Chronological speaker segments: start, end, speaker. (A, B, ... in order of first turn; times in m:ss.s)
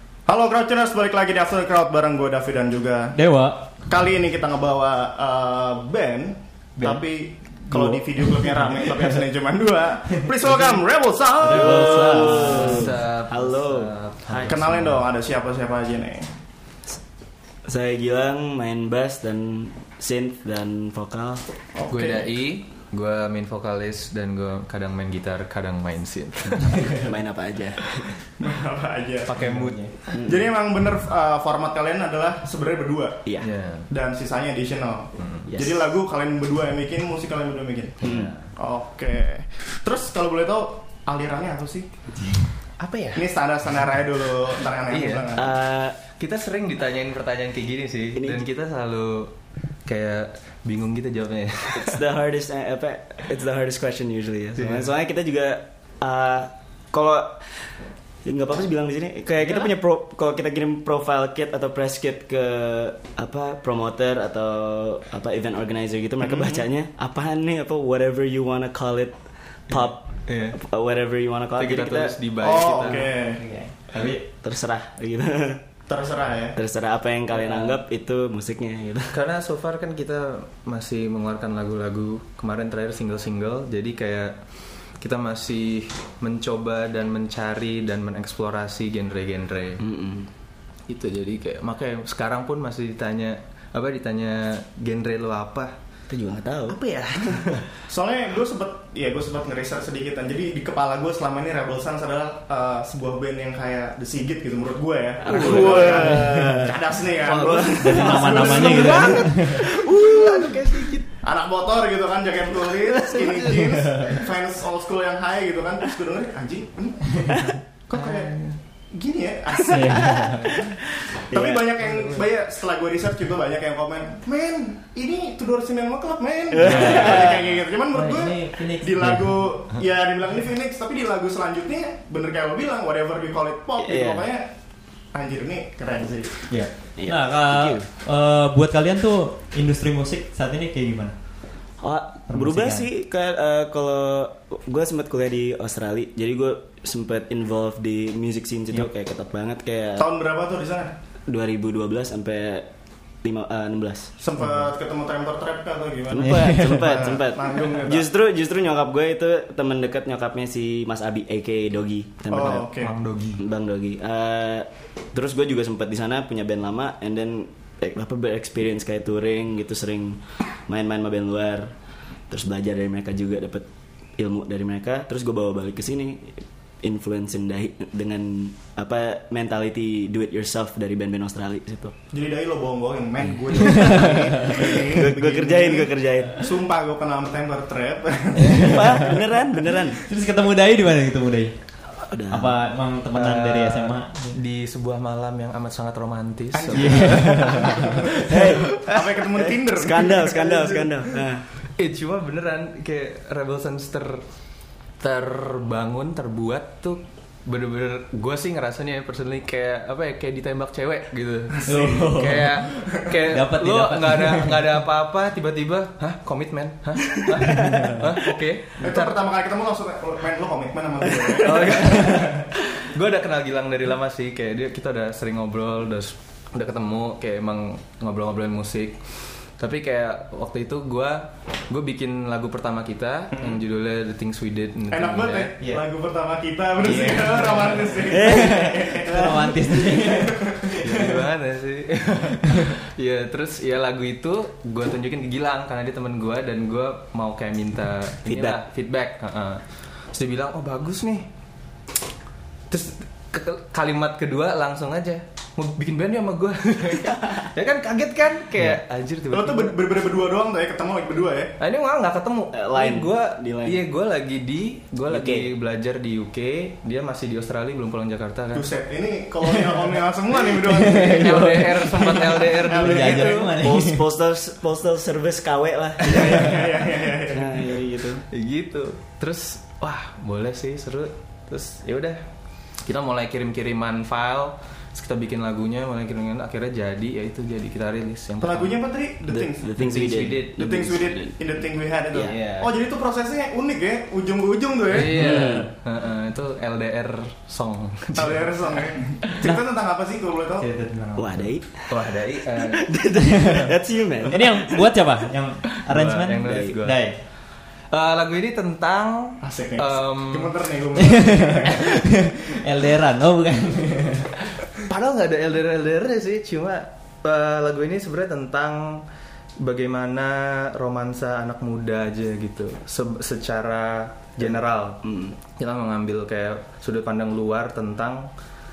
0:00.3-0:03.2 A
0:03.1-0:03.7 B
0:03.9-0:12.7 A
0:06.8-0:07.0 B
0:07.6-0:09.1 B
0:11.4-0:12.9 B
0:11.5-0:14.6 C
0:12.4-0:15.0 D
0:14.4-0:16.3 A
0:17.7-0:21.5 C
0:21.8-0:22.3 A
0:21.9-0:27.1 D
0:27.0-0:28.1 C
0:28.4-0:29.4 A
0:29.2-0:29.9 D
0:29.4-0:29.9 B
0:30.2-0:33.2 A
0:33.2-0:33.5 C
0:33.4-0:33.8 D
0:33.9-0:41.9 A
0:38.0-0:38.3 C
0:38.0-0:38.4 D
0:42.8-0:43.2 D
0:43.1-0:45.5 A
0:44.9-0:45.3 D
0:45.4-0:46.0 C
0:46.1-0:49.3 D
0:48.2-0:48.4 C
0:49.8-0:52.0 D
0:51.7-0:57.6 C
0:54.6-0:54.9 D
0:58.2-1:09.2 C
1:09.7-1:12.1 C
1:09.7-1:10.6 D
1:11.6-1:13.1 D
1:12.4-1:13.4 A
1:13.3-1:14.2 B
1:14.3-1:15.6 C
1:15.9-1:16.6 A
1:16.6-1:19.1 C
1:17.4-1:17.8 D
1:19.1-1:24.4 D
1:25.0-1:29.8 D
1:29.8-1:30.3 C
1:30.9-1:35.8 D
1:36.1-1:36.8 C
1:36.7-1:37.7 D
1:37.9-1:49.5 A
1:45.2-1:50.8 C
1:45.3-1:46.1 D
1:47.8-1:49.7 B
1:50.2-1:50.8 D
1:51.2-1:58.3 A
1:53.1-1:53.6 D
1:58.0-1:58.6 D
1:58.9-2:00.3 A
1:59.7-2:00.5 B
1:59.9-2:01.7 C
2:01.3-2:14.5 A
2:01.8-2:02.2 D
2:06.5-2:07.6 C
2:06.6-2:07.4 B
2:07.9-2:09.5 B
2:13.8-2:14.2 C
2:15.1-2:16.4 A
2:16.5-2:21.1 B
2:17.0-2:17.9 C
2:21.8-2:30.1 C
2:22.3-2:22.9 B
2:30.0-2:30.9 A
2:31.3-2:32.7 C
2:33.2-2:34.1 C
2:34.2-2:38.1 A
2:36.1-2:42.7 C
2:36.2-2:37.1 B
2:42.3-2:42.9 A
2:42.7-2:43.4 D
2:43.4-2:51.8 C
2:52.3-2:53.7 C
2:54.2-3:01.9 C
3:02.1-3:09.1 A
3:03.6-3:04.3 B
3:04.0-3:06.4 C
3:08.4-3:09.1 B
3:08.6-3:10.0 C
3:10.0-3:11.5 B
3:12.1-3:12.5 C
3:12.3-3:14.4 B
3:13.1-3:18.9 D
3:16.5-3:18.1 A
3:16.7-3:18.5 B
3:18.2-3:21.4 C
3:18.6-3:20.5 A
3:21.8-3:24.2 D
3:25.0-3:39.2 D
3:31.6-3:34.8 B
3:37.6-3:38.0 B
3:38.8-3:42.3 A
3:41.4-3:49.0 D
3:49.6-3:55.5 D
3:54.9-4:01.2 A
3:56.8-4:01.1 B
3:56.9-3:57.7 D
3:58.1-3:58.8 C
4:00.8-4:11.3 D
4:08.2-4:08.6 C
4:12.7-4:19.8 D
4:19.3-4:21.6 A
4:21.6-4:28.7 D
4:22.5-4:23.8 C
4:25.1-4:25.5 C
4:28.5-4:33.6 A
4:30.6-4:34.0 B
4:31.0-4:33.5 D
4:33.5-4:36.6 C
4:36.0-4:37.4 A
4:37.2-4:38.2 C
4:38.3-4:42.2 D
4:42.8-4:48.8 D
4:48.4-4:49.7 A
4:49.3-4:51.4 C
4:49.8-4:50.7 D
4:50.6-4:55.5 A
4:52.2-4:52.7 D
4:54.9-4:58.5 D
4:55.0-4:55.7 C
4:58.2-5:00.7 A
5:00.6-5:01.5 B
5:01.2-5:04.8 C
5:01.9-5:03.6 D
5:04.2-5:07.2 B
5:05.8-5:07.1 D
5:06.4-5:06.8 C
5:07.9-5:10.6 D
5:09.4-5:11.9 A
5:11.0-5:14.3 B
5:14.9-5:19.0 D
5:19.6-5:28.3 D
5:25.0-5:25.4 C